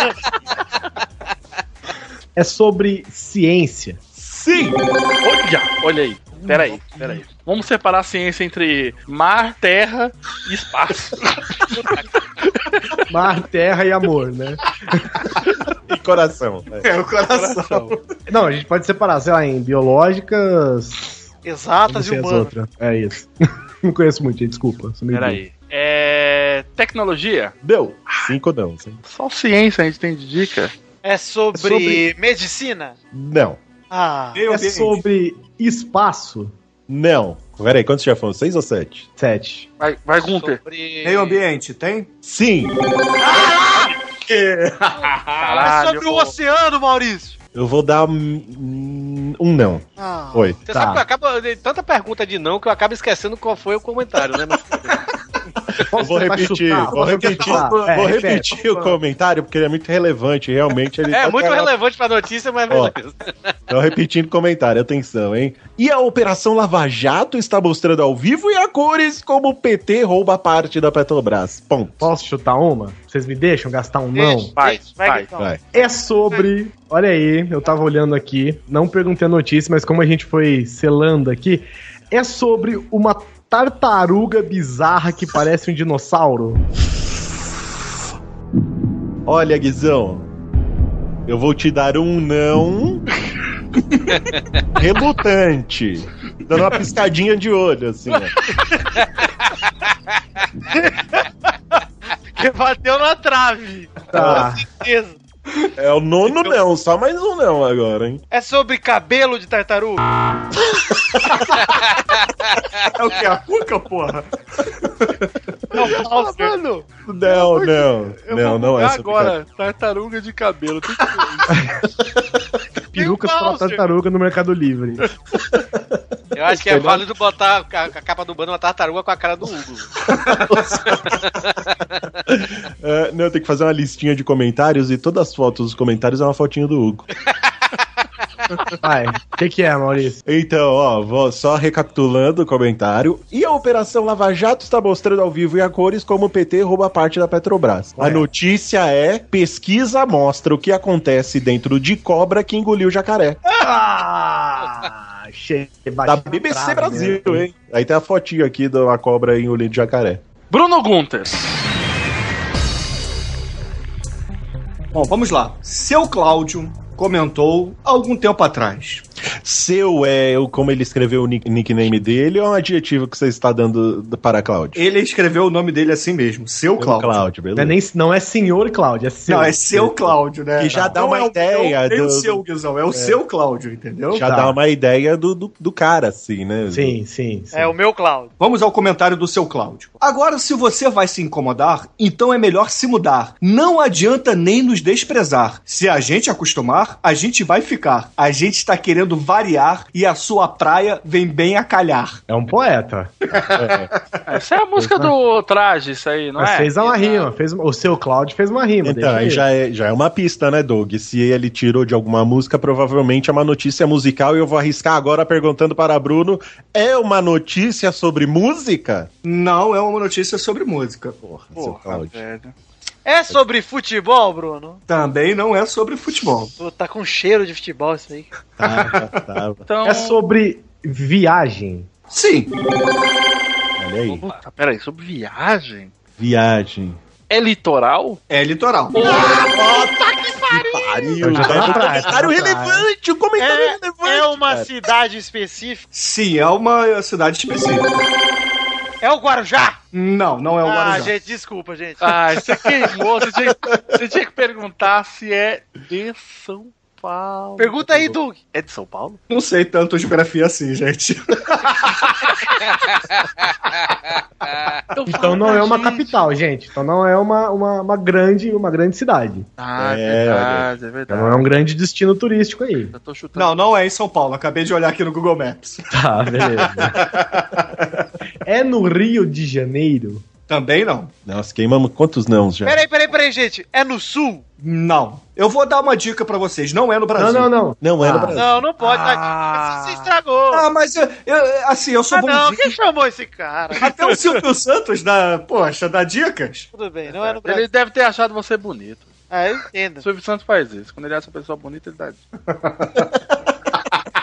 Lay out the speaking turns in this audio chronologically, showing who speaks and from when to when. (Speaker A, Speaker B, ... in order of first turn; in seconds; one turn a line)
Speaker A: 2.4-4.0
Speaker B: 4.2-4.8
Speaker C: 5.2-11.9
Speaker C: 12.4-13.0
Speaker A: 13.1-15.3
Speaker B: 15.9-16.9
Speaker D: 16.8-18.0
Speaker C: 17.2-17.9
Speaker A: 18.3-21.3
Speaker E: 21.4-22.5
Speaker A: 21.9-23.3
Speaker A: 23.8-25.4
Speaker C: 25.1-27.6
Speaker B: 27.6-29.0
Speaker C: 29.1-30.7
Speaker E: 31.0-33.0
Speaker A: 31.6-32.0
Speaker B: 33.1-33.6
Speaker E: 33.9-34.4
Speaker D: 34.3-35.0
Speaker A: 34.5-36.5
Speaker B: 36.9-39.1
Speaker A: 39.2-39.7
Speaker C: 39.8-40.6
Speaker F: 40.2-41.4
Speaker D: 41.0-42.1
Speaker B: 42.2-42.8
Speaker E: 43.2-43.9
Speaker D: 44.3-44.9
Speaker C: 45.4-46.3
Speaker E: 45.6-47.4
Speaker B: 47.5-50.6
Speaker E: 50.0-50.6
Speaker F: 50.7-55.1
Speaker A: 50.7-51.0
Speaker A: 55.9-59.0
Speaker B: 56.0-61.7
Speaker F: 61.1-63.5
Speaker B: 62.7-62.9
Speaker B: 63.7-72.1
Speaker A: 72.0-74.5
Speaker E: 74.2-76.4
Speaker C: 74.6-75.3
Speaker B: 75.4-75.6
Speaker A: 75.7-86.7
Speaker B: 89.3-90.3
Speaker B: 91.3-93.0
Speaker B: 94.8-98.3
Speaker E: 100.7-101.8
Speaker E: 102.3-105.2
Speaker A: 104.1-104.6
Speaker B: 104.2-104.5
Speaker B: 105.8-108.2
Speaker E: 108.3-110.1
Speaker D: 112.9-115.3
Speaker E: 115.7-116.6
Speaker C: 115.8-121.6
Speaker B: 117.1-119.4
Speaker A: 122.9-125.1
Speaker E: 123.0-123.8
Speaker B: 125.5-127.0
Speaker F: 126.3-130.0
Speaker B: 130.3-131.2
Speaker F: 131.1-131.7
Speaker B: 132.3-137.1
Speaker A: 138.8-140.2
Speaker B: 140.3-153.4
Speaker A: 148.0-148.3
Speaker A: 153.5-157.5
Speaker B: 156.0-160.2
Speaker C: 160.5-161.4
Speaker D: 164.9-169.1
Speaker B: 169.4-174.8
Speaker D: 174.8-177.2
Speaker B: 176.8-177.8
Speaker A: 177.6-181.0
Speaker D: 179.3-184.3
Speaker B: 180.6-183.2
Speaker B: 184.1-187.0
Speaker A: 184.1-184.6
Speaker A: 186.7-187.7
Speaker E: 187.5-188.3
Speaker D: 188.4-202.2
Speaker A: 202.3-203.1
Speaker D: 203.3-204.2
Speaker B: 203.5-203.9
Speaker C: 204.3-207.3
Speaker A: 204.8-205.1
Speaker A: 206.4-209.4
Speaker B: 208.8-219.1
Speaker D: 219.2-221.2
Speaker B: 221.2-222.2
Speaker C: 221.6-222.5
Speaker E: 223.1-224.8
Speaker D: 224.9-226.5
Speaker E: 226.6-228.3
Speaker B: 228.6-229.6
Speaker D: 228.6-229.2
Speaker C: 229.7-230.2
Speaker A: 229.8-231.9
Speaker D: 232.1-232.5
Speaker B: 233.8-234.3
Speaker C: 234.1-235.9
Speaker B: 236.2-237.0
Speaker C: 237.3-238.2
Speaker D: 238.3-239.1
Speaker C: 239.0-239.4
Speaker E: 239.0-242.1
Speaker B: 239.2-244.7
Speaker A: 241.2-242.9
Speaker E: 243.4-245.8
Speaker D: 245.9-248.0
Speaker E: 249.0-249.8
Speaker D: 249.9-251.1
Speaker E: 250.6-252.2
Speaker C: 252.0-259.2
Speaker B: 253.7-254.0
Speaker E: 257.6-258.4
Speaker D: 259.3-262.0
Speaker C: 264.9-266.3
Speaker A: 265.1-269.5
Speaker C: 269.6-271.5
Speaker B: 269.8-270.7
Speaker A: 271.1-272.9
Speaker C: 272.9-273.5
Speaker D: 273.4-275.9
Speaker A: 275.9-277.2
Speaker D: 276.4-277.9
Speaker A: 278.4-280.2
Speaker D: 280.5-281.1
Speaker B: 281.3-282.8
Speaker E: 282.6-284.4
Speaker D: 284.6-287.5
Speaker A: 287.2-288.4
Speaker B: 287.8-288.7
Speaker E: 288.3-290.6
Speaker C: 288.8-290.1
Speaker D: 290.5-292.7
Speaker E: 292.1-293.9
Speaker D: 293.8-296.7
Speaker E: 296.7-297.7
Speaker C: 297.2-299.1
Speaker E: 299.3-300.1
Speaker C: 300.0-302.2
Speaker D: 302.6-303.1